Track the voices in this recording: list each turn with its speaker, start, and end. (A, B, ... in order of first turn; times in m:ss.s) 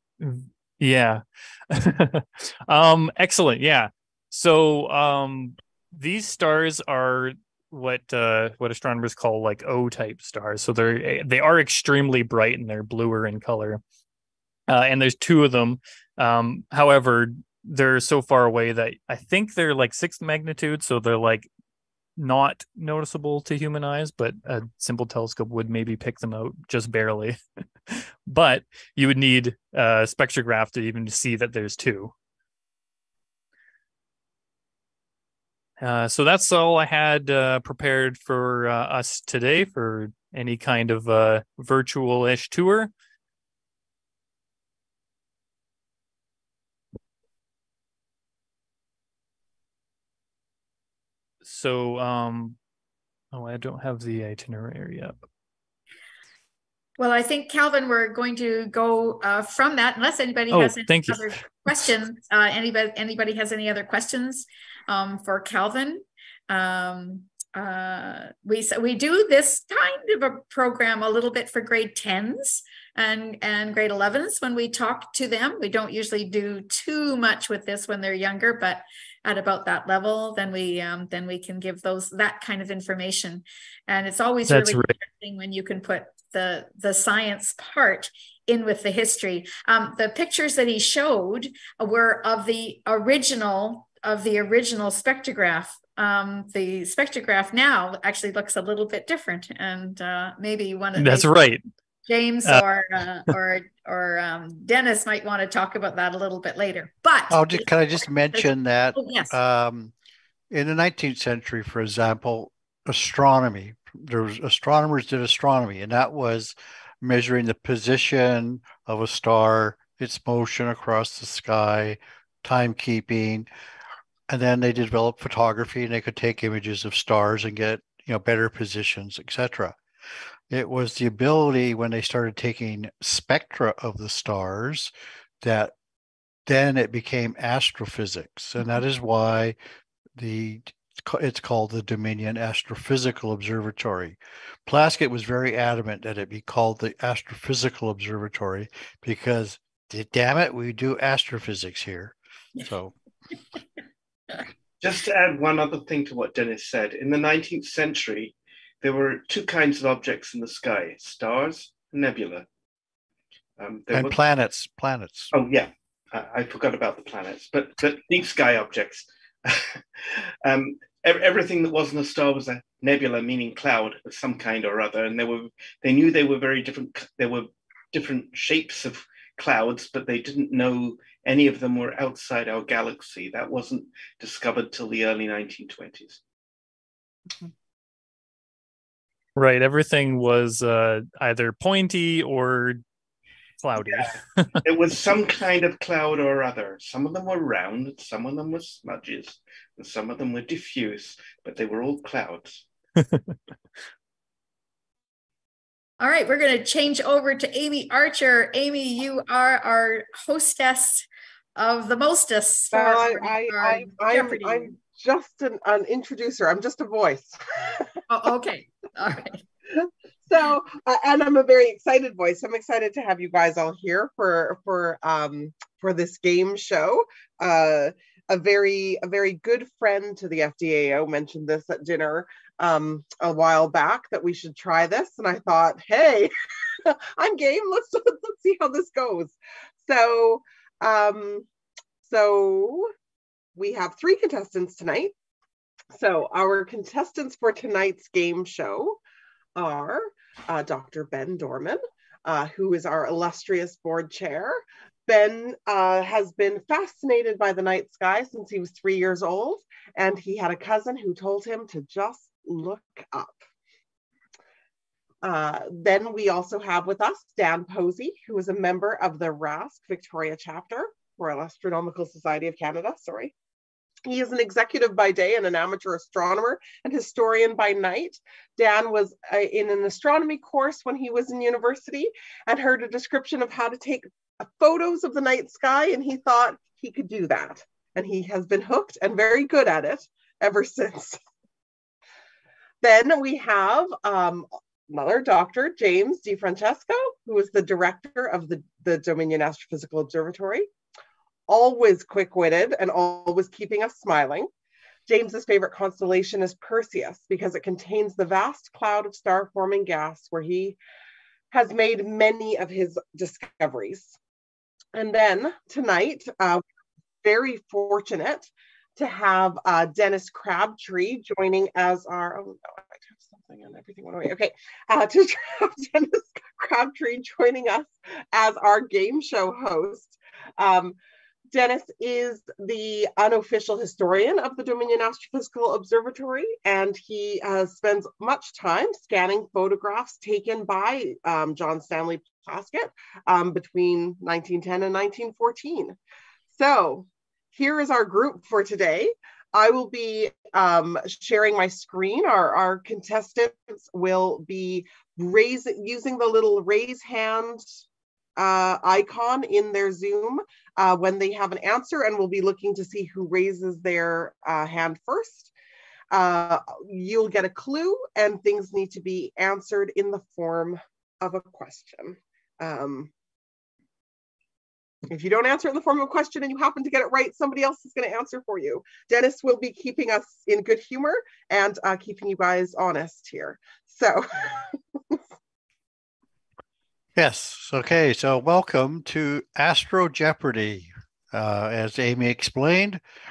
0:00.2-0:13.8 A
0:14.7-0:21.5 A
0:22.2-0:27.4 A
0:27.9-0:32.1 A
0:35.8-0:42.9 A
0:51.4-0:52.6 A
0:53.3-0:55.1 A
0:57.0-1:41.4 B
1:00.5-1:01.9 A
1:24.4-1:24.9 A
1:41.0-1:41.6 A
1:42.1-1:47.7 B
1:47.3-1:49.9 C
1:48.3-1:49.3 B
1:50.5-2:03.5 C
2:04.3-2:09.8 C
2:10.5-2:15.7 C
2:16.5-2:19.6 C
2:20.2-2:32.9 C
2:34.8-2:42.4 D
2:43.6-2:44.2 D
2:43.9-2:45.3 C
2:45.3-3:06.2 D
3:09.4-3:12.8 A
3:13.6-3:14.6 A
3:13.8-3:22.6 D
3:23.0-3:23.4 A
3:26.0-3:34.7 B
3:32.7-3:38.0 E
3:38.1-3:39.4 B
3:40.3-4:01.4 E
4:02.0-4:02.9 E
4:03.6-4:05.1 E
4:05.9-4:09.0 E
4:09.6-4:23.4 E
4:25.2-4:33.3 E
4:34.0-4:51.2 E
4:52.8-5:00.7 E
5:01.5-5:04.5 E
5:05.1-5:10.8 E
5:11.5-5:14.2 E
5:14.9-5:16.6 E
5:17.2-5:31.0 E
5:31.5-5:46.0 E
5:46.5-5:57.7 E
5:58.4-6:05.5 E
6:06.1-6:13.1 E
6:15.1-6:25.2 E
6:27.2-6:33.0 C